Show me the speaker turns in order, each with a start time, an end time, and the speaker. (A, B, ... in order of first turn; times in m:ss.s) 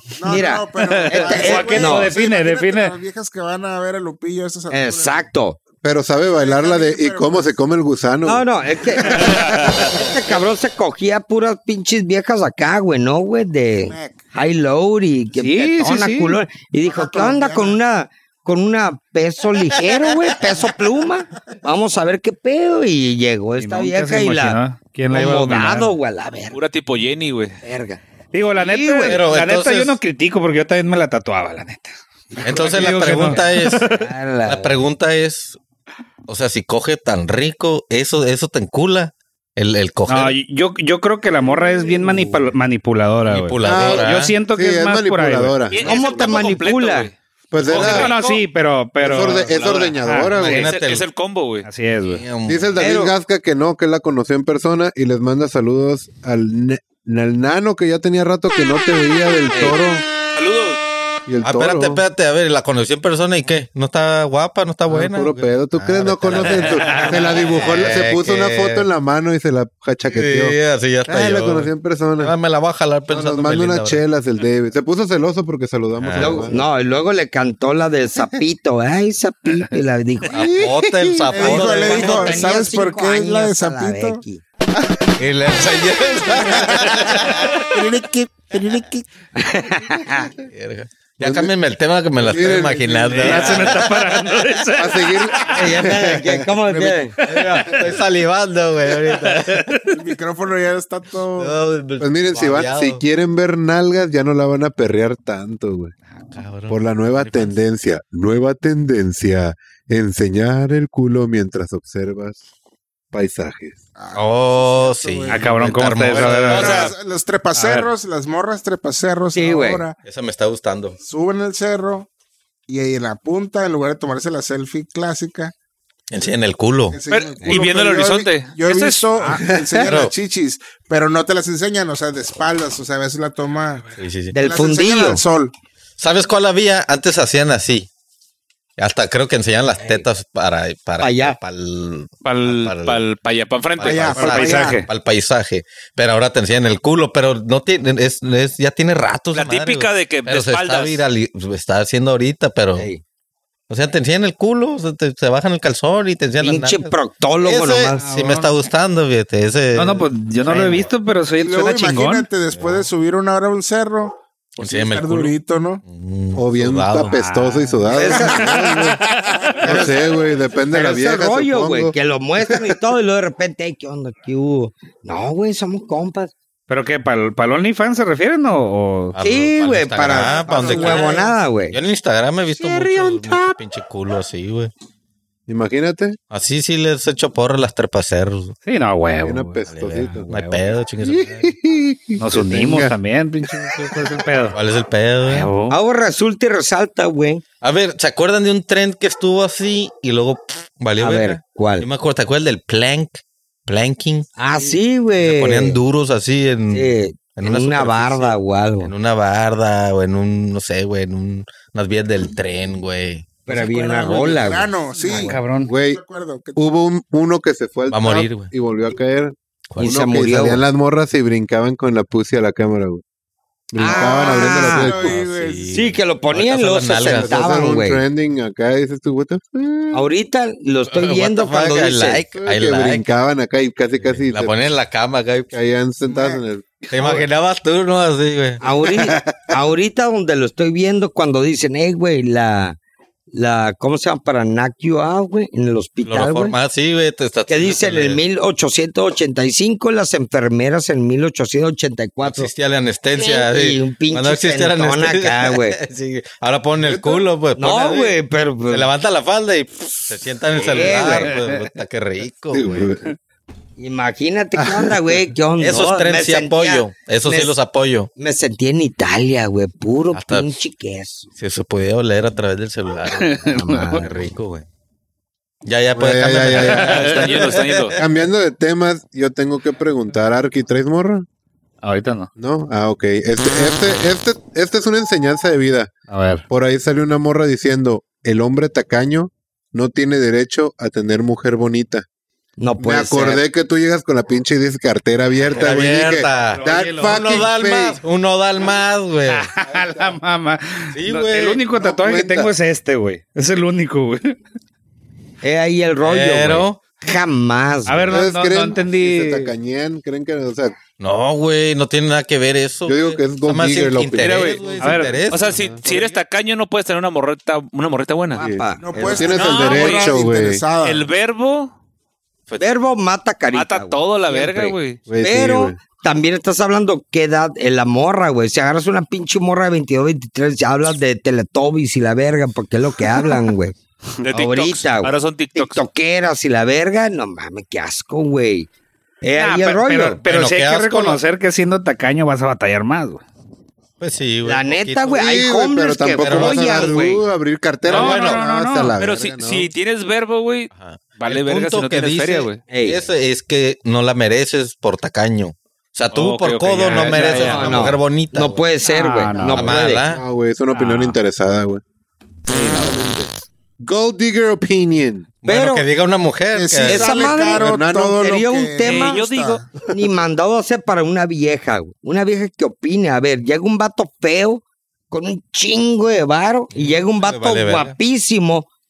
0:00.2-0:05.3 A
0:00.3-0:02.1 B
0:01.0-0:03.0 C
0:04.7-0:05.6 B
0:05.8-0:08.5 D
0:06.2-0:07.6 A
0:08.2-0:24.6 B
0:09.3-0:09.8 E
0:13.8-0:14.2 A
0:15.3-0:16.4 C
0:16.9-0:17.8 A
0:23.6-0:25.9 C
0:25.1-0:26.6 B
0:26.5-0:27.6 E
0:27.6-0:28.0 B
0:28.3-0:33.8 C
0:29.0-0:30.0 F
0:32.3-0:33.4 B
0:32.4-0:35.6 F
0:33.9-0:34.8 B
0:36.3-0:40.4 F
0:40.1-0:45.6 C
0:43.3-0:44.3 F
0:43.6-0:46.2 D
0:45.7-0:48.4 E
0:45.8-0:47.1 B
0:47.5-0:48.1 D
0:47.7-0:50.7 C
0:49.0-0:50.7 D
0:49.4-0:51.7 E
0:50.4-0:51.1 F
0:51.6-0:52.2 C
0:52.1-0:52.8 F
0:52.5-1:00.0 D
0:52.8-0:53.1 B
1:00.4-1:00.8 E
1:01.3-1:02.0 D
1:01.4-1:08.9 F
1:04.9-1:12.4 D
1:06.6-1:07.0 E
1:10.1-1:14.0 F
1:13.1-1:16.6 D
1:16.0-1:16.5 F
1:16.2-1:20.7 B
1:20.3-1:22.5 F
1:20.4-1:24.2 A
1:21.3-1:24.4 B
1:25.2-1:27.7 F
1:26.2-1:29.1 A
1:29.4-1:30.3 B
1:30.4-1:34.7 F
1:31.2-1:31.5 D
1:32.2-1:33.6 A
1:32.2-1:33.6 D
1:33.2-1:35.5 C
1:34.8-1:36.5 D
1:35.6-1:37.2 B
1:35.6-1:36.4 F
1:36.6-1:37.0 A
1:37.2-1:39.8 F
1:37.4-1:37.9 C
1:39.0-1:40.0 C
1:39.9-1:41.6 A
1:41.4-1:43.0 F
1:42.0-1:45.9 D
1:46.3-1:47.5 F
1:46.7-1:52.4 D
1:53.1-1:53.8 D
1:54.0-2:00.0 A
1:54.1-1:56.9 F
1:55.3-1:56.9 C
1:56.1-1:57.0 E
1:57.5-1:57.9 C
1:59.3-1:59.9 B
2:00.0-2:01.0 F
2:01.0-2:02.1 A
2:02.7-2:05.5 A
2:06.1-2:07.0 F
2:06.9-2:15.5 A
2:07.1-2:09.4 E
2:09.3-2:09.8 D
2:09.8-2:10.1 F
2:14.0-2:14.4 F
2:14.3-2:15.2 B
2:16.0-2:17.9 F
2:18.8-2:23.0 F
2:19.8-2:20.1 B
2:21.0-2:21.4 B
2:22.2-2:24.4 E
2:23.8-2:32.9 F
2:23.8-2:24.8 A
2:24.2-2:24.9 C
2:29.3-2:31.0 E
2:32.8-2:33.0 B
2:33.7-2:40.9 F
2:36.4-2:38.0 B
2:38.0-2:38.5 C
2:39.8-2:42.3 C
2:41.4-2:45.8 A
2:42.5-2:42.9 F
2:44.6-2:47.1 F
2:46.4-2:49.0 D
2:47.0-2:48.2 C
2:47.9-2:48.8 B
2:48.0-2:49.9 A
2:49.6-2:52.8 D
2:49.6-2:50.0 B
2:50.7-2:56.3 B
2:56.7-2:59.2 C
2:59.2-3:04.7 F
2:59.2-3:01.8 B
3:00.0-3:01.3 A
3:02.6-3:03.6 B
3:05.5-3:06.2 D
3:06.3-3:08.6 F
3:08.7-3:10.6 C
3:09.2-3:10.3 D
3:09.7-3:11.5 F
3:11.0-3:13.0 D
3:12.2-3:14.6 C
3:14.5-3:15.5 F
3:15.2-3:15.8 C
3:15.7-3:17.4 B
3:17.6-3:24.3 F
3:21.0-3:21.9 B
3:24.4-3:25.8 B
3:25.2-3:34.2 F
3:26.7-3:28.9 B
3:33.4-3:35.4 B
3:34.0-3:36.6 A
3:35.1-3:35.7 C
3:35.7-3:36.0 D
3:36.6-3:43.0 D
3:37.9-3:38.5 F
3:39.7-3:40.0 F
3:39.8-3:40.6 B
3:43.7-3:45.2 D
3:43.8-3:45.0 B
3:43.8-3:45.8 A
3:44.9-3:47.4 F
3:45.7-3:48.0 B
3:47.1-3:50.1 D
3:49.9-3:52.2 B
3:50.9-3:53.1 F
3:52.3-3:54.6 D
3:54.0-3:55.5 F
3:55.5-3:56.9 D
3:56.9-3:58.6 F
3:58.6-4:02.8 B
3:58.8-3:59.5 D
4:03.3-4:06.6 B
4:06.0-4:08.2 F
4:07.5-4:12.5 B
4:12.2-4:22.8 F
4:13.1-4:15.8 B
4:16.8-4:17.3 D
4:17.6-4:18.9 B
4:20.6-4:21.4 B
4:20.9-4:21.7 C
4:22.5-4:23.1 D
4:23.8-4:27.6 B
4:24.6-4:25.3 D
4:25.6-4:28.1 F
4:28.2-4:31.3 B
4:30.1-4:30.5 F
4:31.4-4:34.7 F
4:33.1-4:34.1 C
4:33.4-4:34.2 B
4:35.6-4:38.0 F
4:35.9-4:41.3 D
4:36.7-4:38.0 E
4:41.8-4:42.3 C
4:42.4-4:45.9 D
4:46.1-4:46.4 C
4:46.5-4:52.0 D
4:52.6-4:53.4 B
4:52.8-4:58.0 D
4:55.5-4:59.5 F
4:56.4-4:57.5 C
4:59.3-5:04.4 C
4:59.7-5:00.2 D
5:00.9-5:01.6 F
5:01.8-5:02.5 D
5:05.4-5:08.2 B
5:06.0-5:06.9 F
5:07.9-5:09.5 C
5:08.1-5:10.8 D
5:11.0-5:15.6 F
5:12.9-5:15.8 D
5:14.2-5:14.6 E
5:14.8-5:15.2 C
5:15.3-5:18.4 E
5:18.3-5:19.4 B
5:18.4-5:20.6 D
5:18.8-5:21.1 A
5:19.3-5:20.2 E
5:20.8-5:21.7 E
5:22.6-5:33.8 B
5:23.5-5:25.0 E
5:25.1-5:25.8 D
5:34.2-5:35.8 E
5:34.3-5:38.7 B
5:39.2-5:40.2 B
5:39.4-5:43.2 C
5:40.2-5:41.2 F
5:44.0-5:45.3 F
5:44.4-5:47.2 B
5:45.1-5:49.7 D
5:46.2-5:47.0 F
5:47.9-5:49.0 C
5:47.9-5:48.4 F
5:49.0-5:52.6 E
5:50.7-5:58.6 F
5:52.7-5:53.0 B
5:56.1-5:58.0 E
5:57.1-6:00.1 B
5:57.2-5:57.5 C
5:58.8-5:59.8 C
5:59.4-6:00.2 F
6:00.1-6:01.8 D
6:00.7-6:01.2 C
6:02.5-6:05.3 D
6:05.4-6:07.4 F
6:05.4-6:05.9 B
6:06.5-6:09.8 A
6:06.8-6:09.2 B
6:07.5-6:08.4 D
6:08.8-6:09.6 E
6:09.9-6:18.7 B
6:16.7-6:18.0 F